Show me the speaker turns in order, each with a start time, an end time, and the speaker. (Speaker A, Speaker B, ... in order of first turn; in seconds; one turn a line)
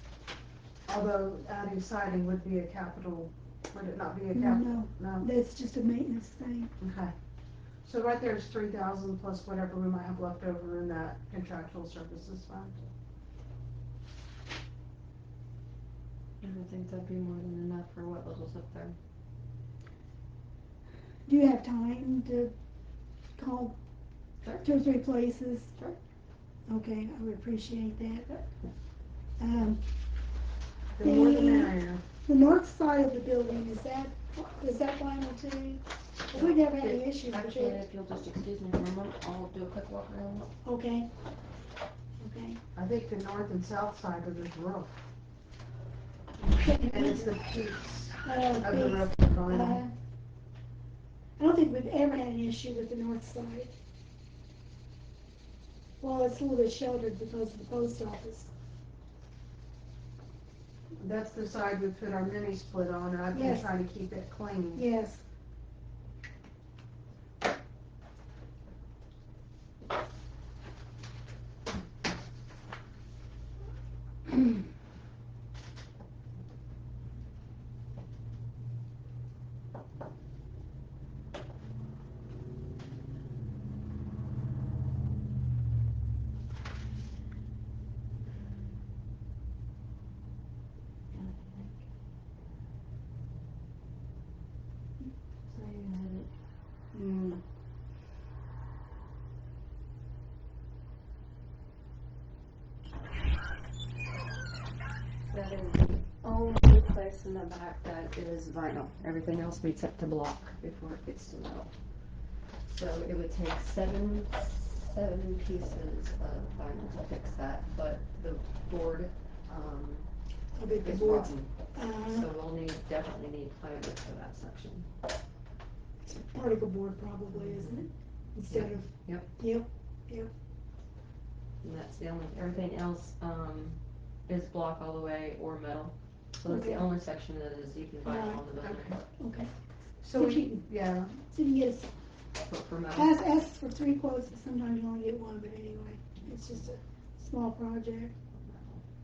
Speaker A: 0.9-5.3
Speaker B: 4.3-6.7
Speaker A: 6.8-7.1
Speaker A: 7.8-12.9
Speaker C: 16.4-19.0
Speaker B: 21.3-22.5
Speaker B: 23.4-23.8
Speaker B: 24.6-25.7
Speaker B: 26.7-28.5
Speaker B: 29.4-29.8
Speaker A: 30.9-32.0
Speaker B: 31.0-37.8
Speaker C: 36.3-40.5
Speaker B: 40.6-41.1
Speaker B: 42.2-42.6
Speaker A: 42.8-45.0
Speaker B: 46.6-47.3
Speaker A: 46.7-49.8
Speaker B: 48.2-49.9
Speaker B: 51.4-53.8
Speaker B: 56.0-58.5
Speaker A: 61.0-64.8
Speaker B: 63.3-63.7
Speaker B: 64.8-65.2
Speaker C: 91.1-91.8
Speaker C: 95.0-96.3
Speaker B: 96.9-97.4
Speaker C: 105.3-111.7
Speaker C: 112.7-120.1
Speaker B: 120.6-122.3
Speaker C: 120.7-124.9
Speaker B: 126.0-130.3
Speaker C: 127.3-127.8
Speaker C: 128.5-129.3
Speaker C: 131.6-138.9
Speaker B: 136.5-136.9
Speaker B: 138.1-138.4
Speaker A: 138.6-139.0
Speaker B: 139.2-139.5
Speaker A: 140.0-141.2
Speaker B: 140.1-140.6
Speaker B: 141.1-141.9
Speaker C: 142.4-143.2
Speaker B: 142.9-148.2
Speaker C: 148.3-148.8